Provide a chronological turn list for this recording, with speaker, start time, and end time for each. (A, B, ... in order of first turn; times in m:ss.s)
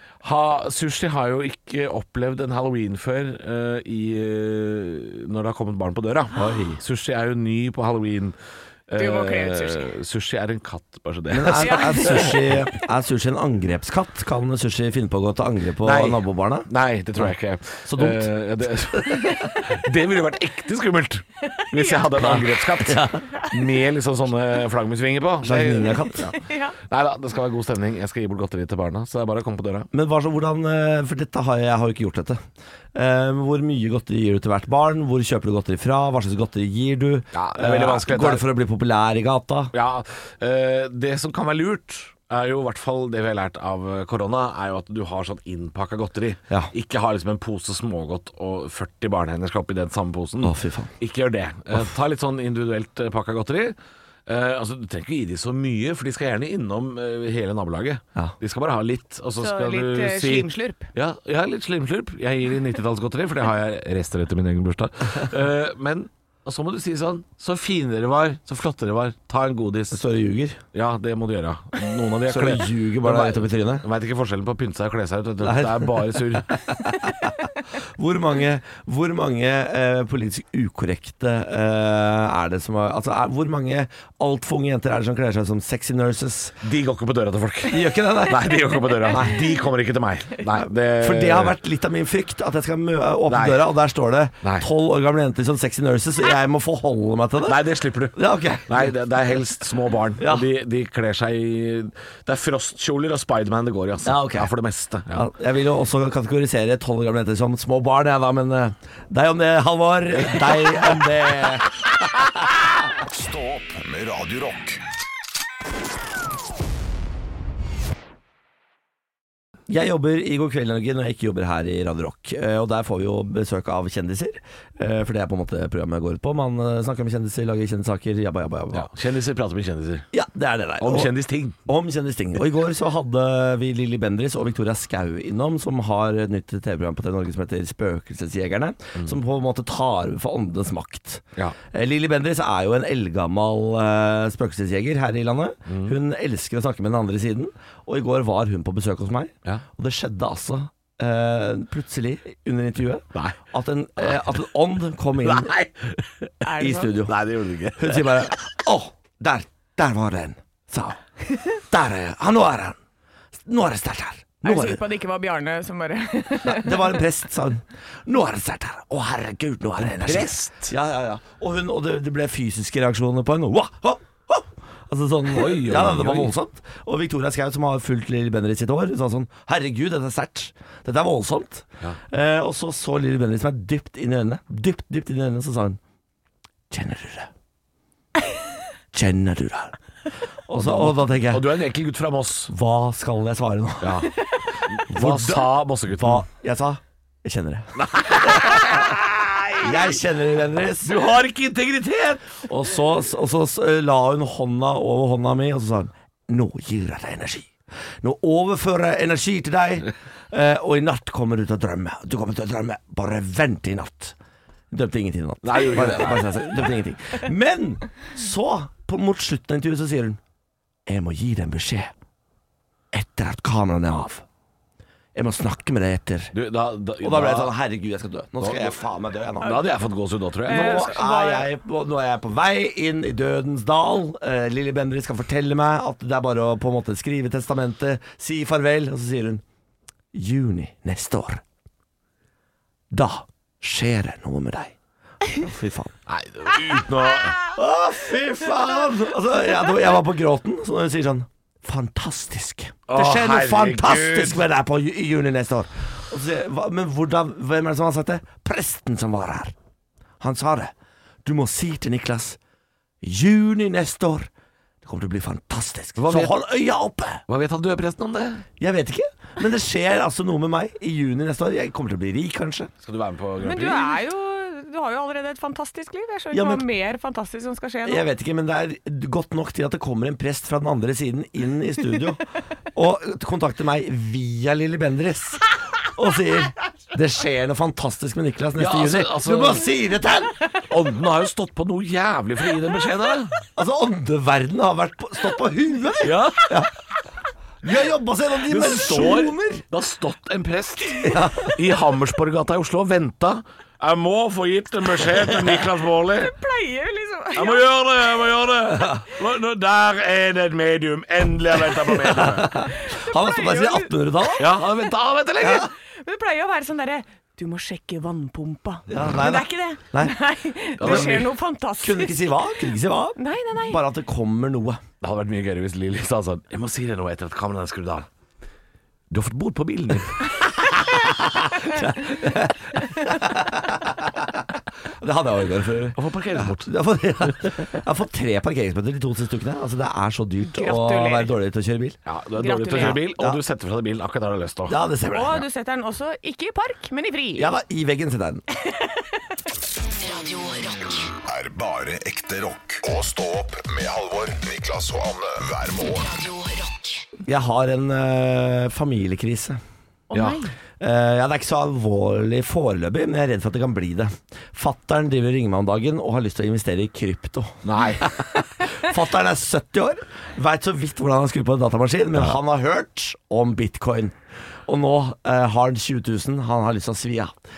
0:00.2-0:08.4 A
0:06.4-0:06.8 B
0:08.9-0:12.6 A
0:09.0-0:09.9 C
0:11.3-0:17.3 B
0:11.6-0:12.4 C
0:15.8-0:29.9 A
0:17.9-0:18.3 B
0:18.9-0:19.4 B
0:21.5-0:22.1 C
0:22.1-0:23.2 B
0:25.4-0:26.3 B
0:26.3-0:26.8 C
0:29.9-0:32.4 B
0:32.9-0:39.7 B
0:37.3-0:38.5 A
0:39.7-0:53.8 A
0:50.4-0:50.9 B
0:54.3-1:10.0 A
0:59.4-1:00.9 C
1:09.9-1:10.6 B
1:10.7-1:16.6 A
1:12.3-1:13.8 B
1:15.4-1:26.6 B
1:26.6-1:31.6 A
1:27.7-1:29.5 B
1:30.6-1:39.0 B
1:33.3-1:33.6 A
1:37.4-1:45.3 A
1:40.2-1:40.5 B
1:44.0-1:44.5 B
1:45.1-1:51.8 B
1:50.2-1:50.8 A
1:53.0-1:54.8 D
1:59.7-2:08.9 B
2:08.7-2:10.1 A
2:10.1-2:11.1 B
2:10.8-2:11.6 A
2:11.6-2:35.5 B
2:25.7-2:26.0 A
2:35.2-2:36.3 A
2:36.4-2:36.9 C
2:36.6-2:37.2 B
2:37.0-2:38.4 A
2:37.8-2:41.0 B
2:41.6-2:42.8 B
2:43.4-2:44.8 B
2:44.4-2:47.0 C
2:46.4-3:05.8 B
2:49.9-2:50.7 A
2:55.3-2:56.3 A
3:06.7-3:07.3 B
3:08.9-3:09.8 B
3:10.5-3:11.5 B
3:10.6-3:12.5 A
3:12.5-3:14.1 B
3:13.8-3:16.3 A
3:14.9-3:18.9 B
3:17.8-3:19.8 A
3:19.6-3:21.0 B
3:20.8-3:22.2 A
3:22.4-3:27.5 B
3:28.0-3:34.2 B
3:34.7-3:40.2 B
3:35.4-3:36.6 A
3:40.9-3:41.9 B
3:42.9-3:44.2 B
3:45.2-3:46.3 B
3:46.3-3:47.5 A
3:47.0-3:49.7 B
3:48.4-3:48.8 A
3:49.4-3:50.9 A
3:50.5-3:51.5 C
3:50.5-3:59.4 B
4:00.1-4:01.4 B
4:02.9-4:04.8 B
4:05.4-4:06.0 B
4:06.1-4:07.4 A
4:07.5-4:19.5 B
4:12.9-4:14.4 A
4:20.2-4:20.7 B
4:21.2-4:22.4 B
4:23.0-4:24.3 B
4:24.8-4:27.2 B
4:26.0-4:26.3 A
4:27.3-4:28.4 A
4:28.6-4:32.7 B
4:32.8-4:34.0 A
4:33.4-4:38.0 C
4:36.3-4:36.7 B
4:37.8-4:42.2 B
4:42.7-4:50.4 B
4:48.6-4:49.7 A
4:50.7-4:53.4 A
4:53.6-4:56.7 B
4:56.0-4:56.6 A
4:57.6-4:59.6 B
4:58.5-5:06.3 A
5:01.0-5:01.5 B
5:06.2-5:07.7 C
5:07.4-5:12.6 A
5:11.9-5:14.5 B
5:12.8-5:14.4 C
5:14.4-5:15.7 A
5:15.4-5:15.7 B
5:15.6-5:22.5 C
5:18.9-5:20.2 B
5:20.8-5:21.3 A
5:20.8-5:21.2 B
5:21.8-5:24.8 B
5:23.2-5:23.8 C
5:25.0-5:28.1 A
5:29.1-5:30.4 A
5:31.6-5:34.4 B
5:35.0-5:42.0 B
5:36.0-5:36.7 A
5:40.4-5:41.3 C
5:42.1-5:44.8 A
5:42.4-5:43.0 C
5:42.7-5:43.4 B
5:44.7-5:45.4 B
5:45.1-5:47.5 C
5:47.4-5:48.4 B
5:48.7-5:49.0 C
5:50.0-5:51.1 E
5:51.3-5:56.1 D
5:56.0-5:57.0 E
5:57.3-5:59.6 B
6:00.1-6:00.5 C
6:00.1-6:00.4 A
6:00.8-6:17.4 B
6:07.6-6:08.1 A